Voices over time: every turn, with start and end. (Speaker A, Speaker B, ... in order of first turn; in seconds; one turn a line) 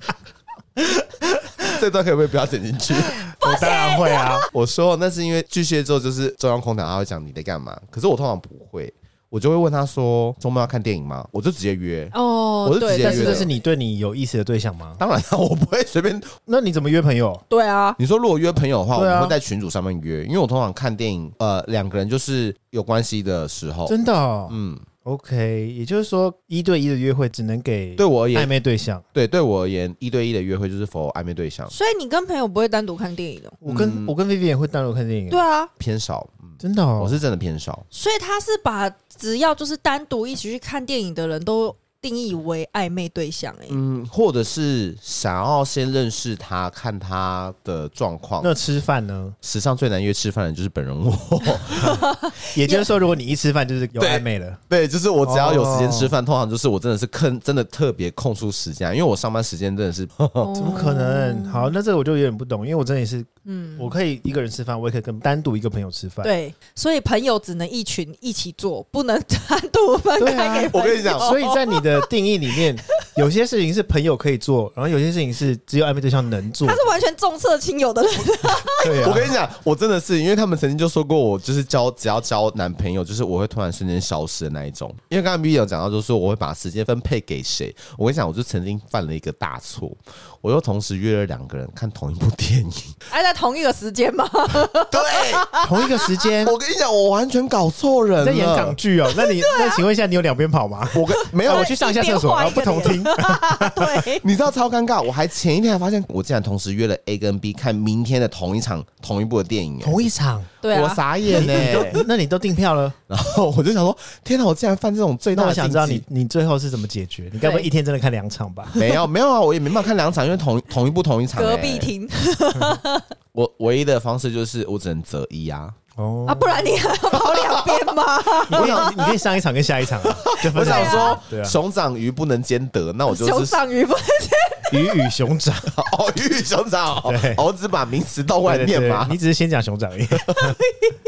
Speaker A: 0.8-1.7
Speaker B: 1.7-3.2
Speaker A: 3.2-4.5
Speaker C: 3.4-4.5
Speaker B: 4.5-13.5
Speaker C: 12.1-13.5
Speaker A: 13.0-15.0
Speaker B: 15.0-16.3
Speaker A: 16.5-17.4
Speaker C: 17.5-18.0
Speaker B: 18.0-23.9
Speaker A: 18.9-19.4
Speaker A: 23.9-29.0
Speaker B: 24.5-24.8
Speaker B: 28.0-28.5
Speaker B: 29.1-31.7
Speaker C: 31.7-33.6
Speaker A: 33.6-35.4
Speaker B: 33.6-34.1
Speaker C: 35.3-35.7
Speaker B: 35.8-37.9
Speaker A: 36.6-37.2
Speaker C: 37.9-43.8
Speaker B: 43.7-48.5
Speaker A: 48.4-49.4
Speaker B: 49.4-52.0
Speaker A: 51.8-54.6
Speaker C: 51.9-52.9
Speaker B: 54.0-60.5
Speaker A: 55.2-56.1
Speaker C: 60.4-61.7
Speaker A: 60.5-66.3
Speaker C: 63.5-63.9
Speaker C: 66.2-72.6
Speaker A: 70.2-76.8
Speaker B: 70.7-71.3
Speaker C: 76.6-79.0
Speaker A: 78.8-79.3
Speaker B: 79.0-93.0
Speaker C: 93.1-96.2
Speaker B: 94.9-95.5
Speaker A: 95.6-96.5
Speaker B: 96.4-98.8
Speaker A: 98.2-104.1
Speaker C: 99.1-99.8
Speaker B: 100.9-101.7
Speaker C: 101.2-104.2
Speaker B: 104.2-110.0
Speaker A: 109.8-110.5
Speaker C: 110.6-111.8
Speaker B: 110.7-112.0
Speaker A: 111.3-113.0
Speaker B: 113.1-116.0
Speaker A: 115.3-118.8
Speaker C: 117.4-117.7
Speaker B: 118.7-121.9
Speaker C: 121.3-123.1
Speaker B: 123.3-125.8
Speaker A: 126.0-126.9
Speaker C: 126.3-129.1
Speaker B: 127.1-127.7
Speaker A: 128.5-131.6
Speaker B: 128.5-128.9
Speaker B: 130.0-133.6
Speaker C: 130.6-131.2
Speaker C: 133.1-135.1
Speaker A: 134.7-135.8
Speaker B: 135.7-139.2
Speaker A: 137.0-137.4
Speaker A: 138.4-140.6
Speaker C: 140.4-141.0